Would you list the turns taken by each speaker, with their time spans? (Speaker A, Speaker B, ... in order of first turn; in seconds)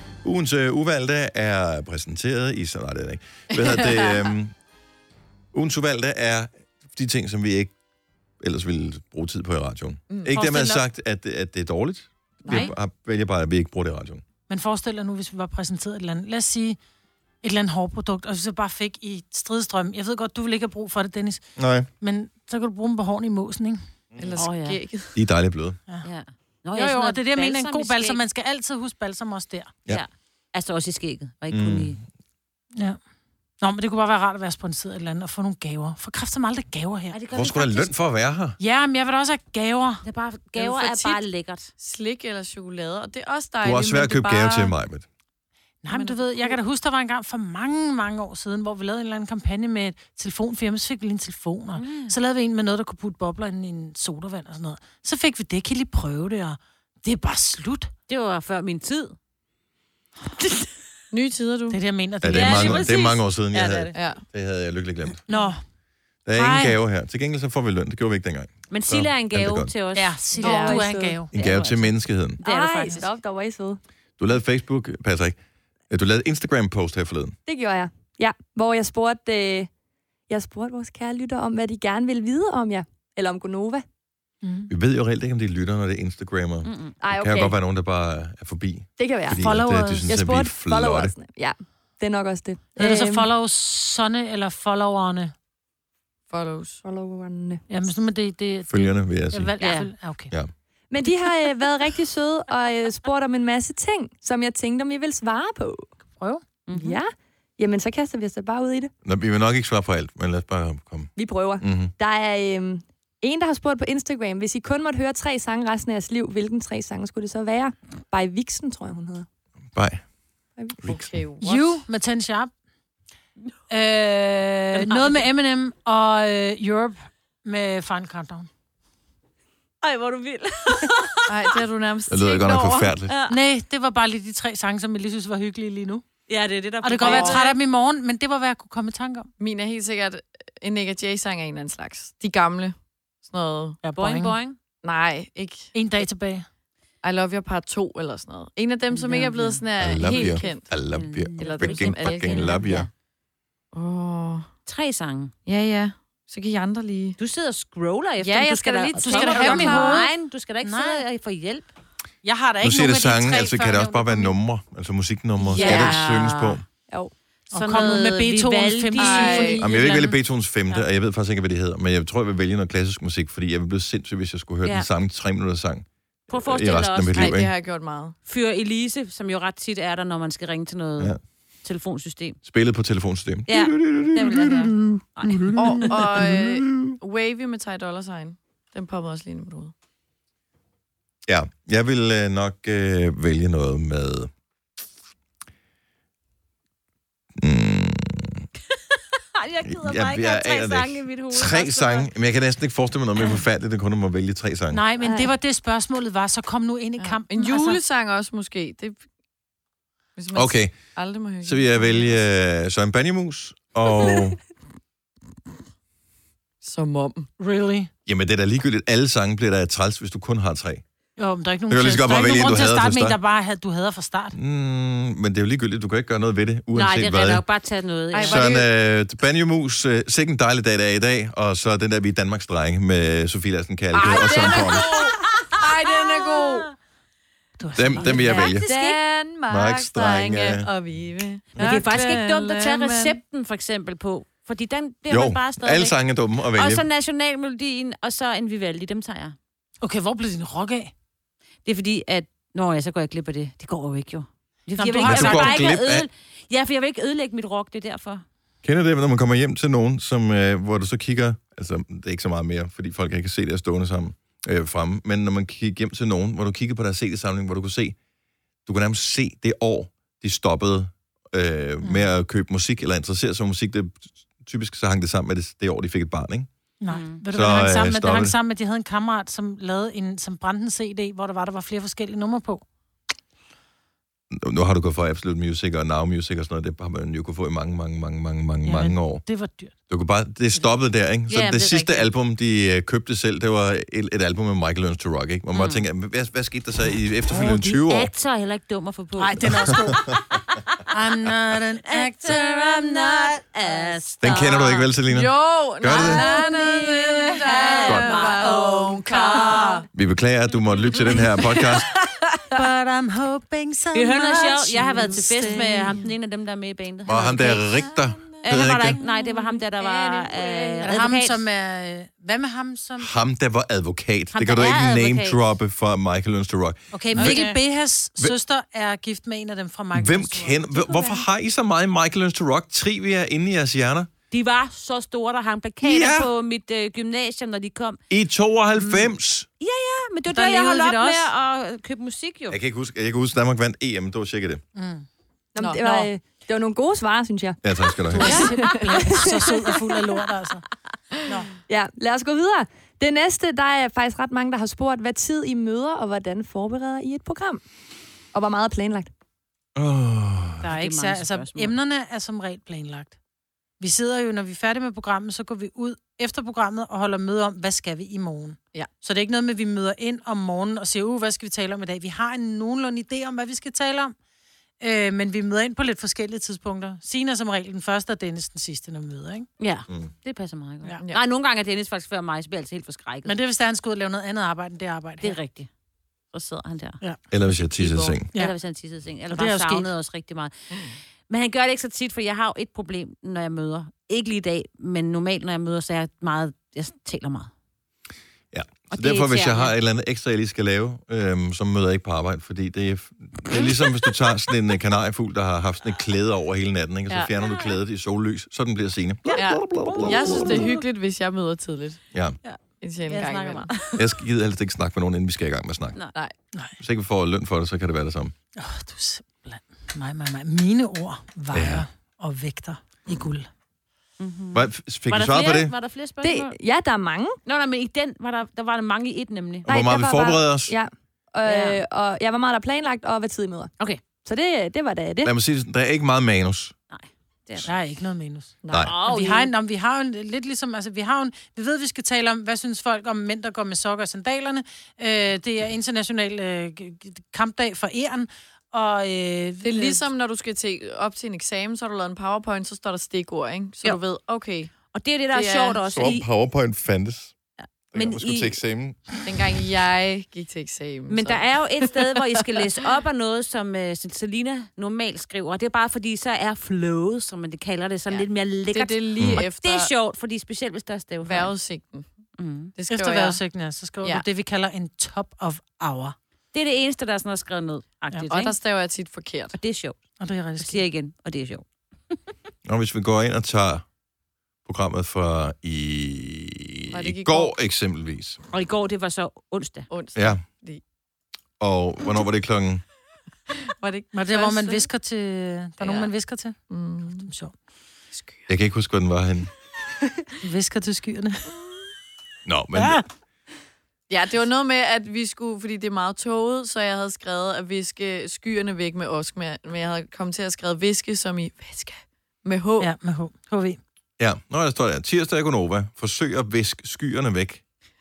Speaker A: 0.2-4.5, 5.5-7.7, 8.4-14.2, 21.6-21.9, 25.1-25.8, 31.5-32.0, 37.3-38.6, 43.6-45.0, 62.2-65.2, 66.2-69.7, 71.3-72.4, 74.2-75.4, 75.9-77.3, 84.7-91.1, 98.7-99.5, 109.0-111.9, 119.7-120.0, 120.8-121.1, 132.1-133.1, 149.8-152.9, 162.6-166.6, 169.6-177.5, 182.4-186.9, 191.2-194.3, 197.3-198.4, 199.7-204.8, 210.3-210.8, 211.4-214.4, 218.1-220.8, 221.7-223.2, 224.3-227.4, 228.2-234.8, 237.8-238.6, 239.5-240.7, 245.1-246.8, 255.0-256.1, 258.6-267.9, 268.6-276.5, 277.3-278.4, 284.3-289.2, 289.9-298.1, 304.2-306.2, 307.9-308.2, 309.9-311.8, 317.1-319.0, 323.0-327.4, 329.9-334.1, 335.8-336.3, 338.1-339.5, 342.5-344.6, 347.6-348.5, 359.8-360.6, 387.3-388.3, 398.5-410.7, 414.0-416.0, 416.8-418.3, 421.5-421.8, 424.5-425.7, 429.6-430.7, 435.2-436.8, 455.9-457.4, 457.9-459.0, 469.2-469.4, 482.6-483.8, 484.6-488.4, 490.1-490.4, 491.6-492.8, 498.5-499.5, 502.4-503.0, 514.2-517.6
Speaker B: 3.5-4.3, 12.4-12.7, 24.1-25.1, 40.5-41.2, 41.8-44.7, 45.9-46.6, 61.1-61.8, 63.9-64.2, 70.4-70.8, 96.3-96.8, 120.8-121.8, 131.3-132.9, 137.0-137.6, 139.4-143.8, 144.8-145.7, 147.0-150.7, 151.4-152.7, 153.7-154.5, 155.4-157.2, 158.2-160.1, 165.6-165.9, 169.0-169.6, 177.1-178.2, 185.6-189.7, 207.0-209.0, 210.2-212.2, 216.6-217.3, 228.1-228.7, 234.0-236.7, 238.6-243.2, 305.1-309.8, 318.3-321.1, 345.6-346.1, 348.3-349.7, 387.8-388.2, 409.4-412.0, 412.8-413.7, 438.6-439.0, 449.6-454.7, 455.3-456.1, 459.2-462.4, 468.1-469.9, 471.2-472.1, 472.7-473.4, 478.3-479.6, 486.9-487.5, 489.9-490.8, 493.8-494.9, 495.8-496.1, 496.7-497.3, 498.1-498.5, 504.1-512.9
Speaker C: 10.3-10.8, 24.4-24.8, 26.0-28.2, 29.9-32.0, 37.1-37.9, 40.0-41.7, 51.8-52.1, 58.1-59.1, 60.4-60.7, 62.3-64.0, 68.7-70.3, 71.3-73.1, 86.6-86.9, 99.6-99.9, 106.7-107.0, 124.8-125.1, 129.8-131.6, 133.1-133.4, 136.3-137.5, 143.9-144.6, 148.9-152.9, 154.7-155.3, 157.2-161.7, 165.5-166.6, 167.5-169.6, 176.3-177.4, 178.2-182.4, 183.5-185.5, 198.7-202.1, 226.7-228.6, 233.9-235.4, 238.0-239.0, 241.6-245.9, 246.5-249.3, 251.7-258.2, 276.9-277.2, 291.3-292.1, 295.5-295.8, 297.6-299.6, 301.8-304.9, 305.9-309.8, 313.9-317.7, 318.5-321.4, 324.3-325.4, 327.1-327.6, 334.3-338.0, 339.6-342.6, 360.7-361.7, 379.6-383.3, 385.2-385.7, 386.3-387.0, 388.3-397.5, 398.9-399.7, 407.4-407.7, 410.0-410.7, 412.4-414.1, 424.2-426.5, 427.4-429.7, 431.4-431.8, 436.9-437.7, 438.8-439.5, 454.9-456.2, 457.9-458.6, 461.1-471.5, 472.4-472.7, 476.5-478.5, 479.6-480.0, 480.6-481.6, 488.5-489.9
Speaker D: 14.5-16.8, 17.4-21.5, 22.0-23.8, 26.7-29.7, 33.6-37.1, 38.6-40.0, 45.8-57.9, 61.7-62.9, 65.3-65.6, 66.3-66.7, 69.9-71.3, 84.4-84.7, 89.4-90.2, 92.8-95.3, 97.7-100.3, 106.1-106.4, 121.4-122.5, 123.7-128.5, 133.3-136.0, 136.8-139.3, 143.8-144.3, 145.7-146.4, 159.0-160.1, 160.6-161.0, 162.2-164.3, 167.5-170.2, 204.7-207.8, 217.4-217.9, 221.2-224.3, 237.6-238.5, 249.8-250.9, 254.7-255.7, 271.8-272.1, 276.8-282.6, 288.6-289.7, 299.2-300.2, 300.9-304.0, 312.5-316.1, 320.8-323.1, 326.9-330.6, 340.3-341.2, 344.8-345.0, 348.1-350.6, 360.6-363.1, 363.8-374.1, 374.8-379.5, 383.2-385.4, 389.3-389.9, 418.6-423.5, 437.6-450.1, 472.9-476.1, 480.2-480.8, 494.1-496.6, 497.2-497.5, 500.4-501.5, 502.7-503.0, 512.8-513.8
Speaker E: 70.4-71.2, 72.4-73.8, 77.5-79.7, 80.3-83.8, 87.0-87.5, 89.0-93.3, 96.8-97.6, 100.9-105.9, 106.7-108.9, 111.2-119.3, 345.5-347.6, 348.2-349.2, 351.7-357.6, 358.3-359.1, 426.2-427.4, 429.7-433.7, 434.2-435.3